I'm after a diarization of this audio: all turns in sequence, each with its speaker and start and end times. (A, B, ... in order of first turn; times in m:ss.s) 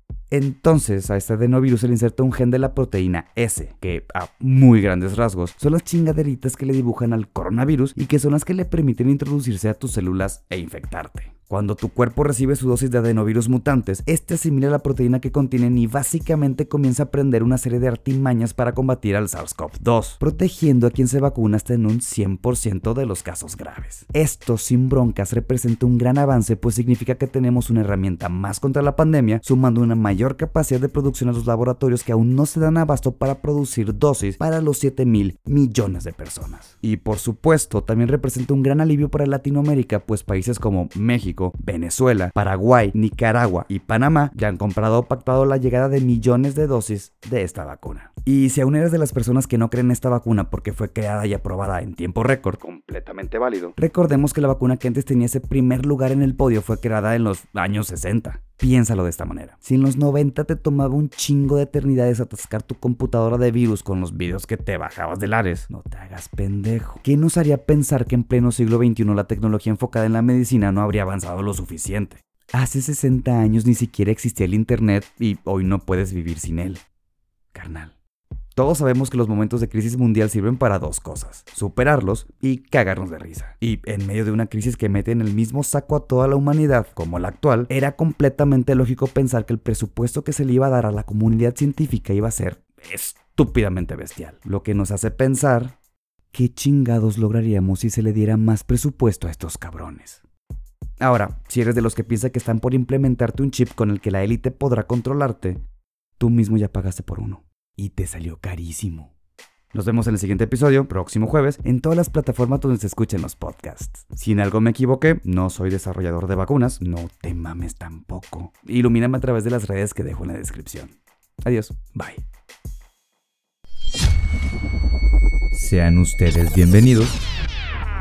0:00.3-1:16.8 A
1:17.5-1:17.9 A
1:18.6-1:35.7 A
1:36.3-1:40.2 A
1:41.0-1:45.6 A
1:46.2-1:49.1 A
1:49.7-2:02.2 A
2:05.5-2:07.2 A